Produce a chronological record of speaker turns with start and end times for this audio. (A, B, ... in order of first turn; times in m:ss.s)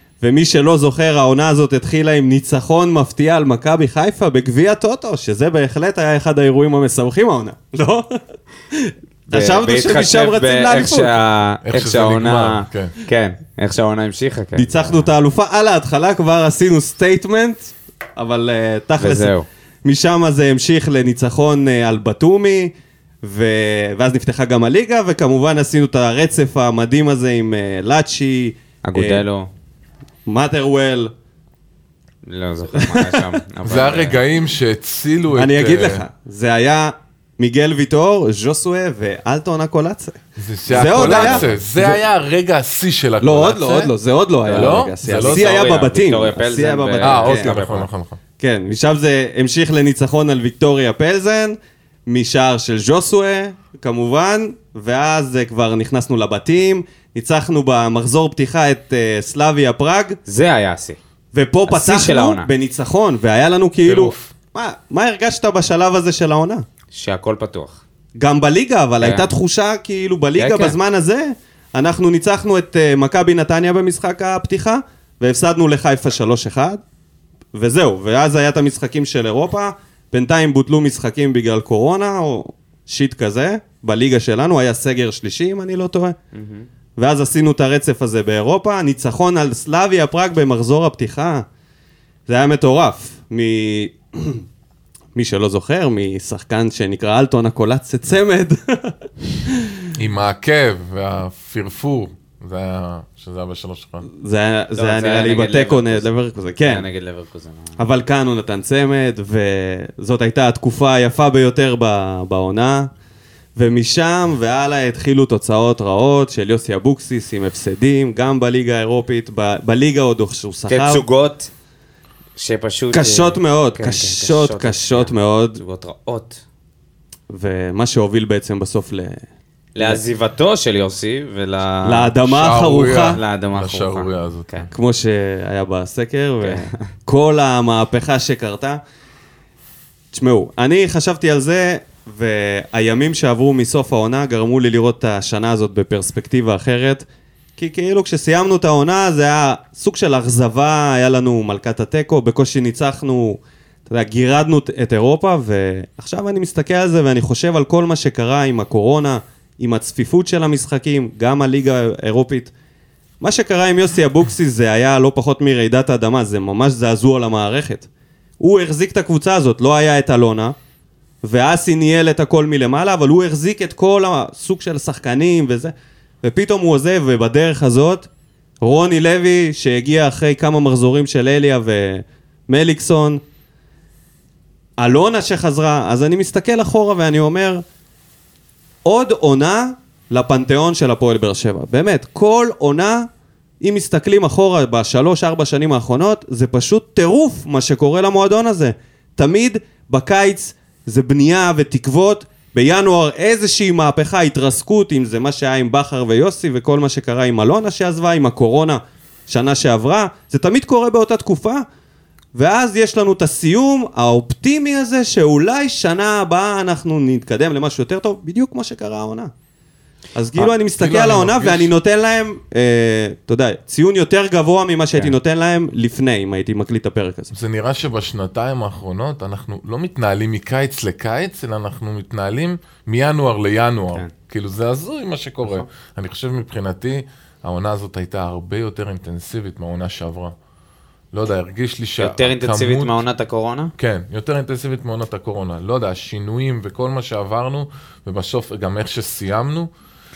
0:00.2-0:08.2 A
0:08.7-0:11.2 A
0:09.3-0:15.1 B
0:11.6-0:13.0 C
0:14.6-0:19.3 A
0:19.0-0:19.5 B
0:19.8-0:22.7 A
0:23.2-0:29.2 A
0:28.8-0:29.5 B
0:30.3-0:31.1 A
0:32.3-0:34.2 B
0:32.8-0:33.2 A
0:33.6-0:36.0 C
0:35.3-0:42.0 A
0:40.4-0:43.9 C
0:40.7-0:41.5 B
0:43.2-0:47.5 A
0:44.5-0:45.5 C
0:44.5-0:47.9 B
0:47.0-0:48.2 C
0:48.4-1:00.2 A
1:00.3-1:01.0 B
1:01.3-1:06.6 A
1:01.7-1:02.5 B
1:03.8-1:04.3 C
1:06.9-1:07.8 B
1:08.2-1:16.8 A
1:09.0-1:09.3 B
1:10.4-1:10.8 B
1:17.5-1:26.2 A
1:26.3-1:26.7 B
1:27.0-1:31.4 A
1:32.3-1:34.4 A
1:35.2-1:39.8 A
1:40.0-1:44.1 C
1:44.1-1:46.9 A
1:44.8-1:46.1 B
1:46.6-1:47.8 B
1:47.8-1:52.9 A
1:53.6-2:01.0 A
2:00.7-2:01.5 B
2:02.4-2:06.4 B
2:02.9-2:05.6 A
2:07.3-2:09.2 A
2:09.8-2:12.1 B
2:11.8-2:13.2 A
2:12.2-2:14.6 C
2:13.1-2:14.7 B
2:14.7-2:18.8 A
2:16.4-2:16.9 B
2:20.1-2:27.0 A
2:27.6-2:42.5 A
2:43.2-2:47.9 A
2:48.4-2:50.6 A
2:51.2-2:58.1 A
2:58.6-3:03.2 A
3:04.8-3:07.6 A
3:08.8-3:13.1 A
3:13.6-3:31.6 A
3:32.3-3:39.3 A
3:40.2-3:47.3 A
3:40.8-3:41.7 C
3:47.3-4:00.3 C
4:01.1-4:03.0 C
4:02.0-4:03.7 B
4:03.8-4:09.7 C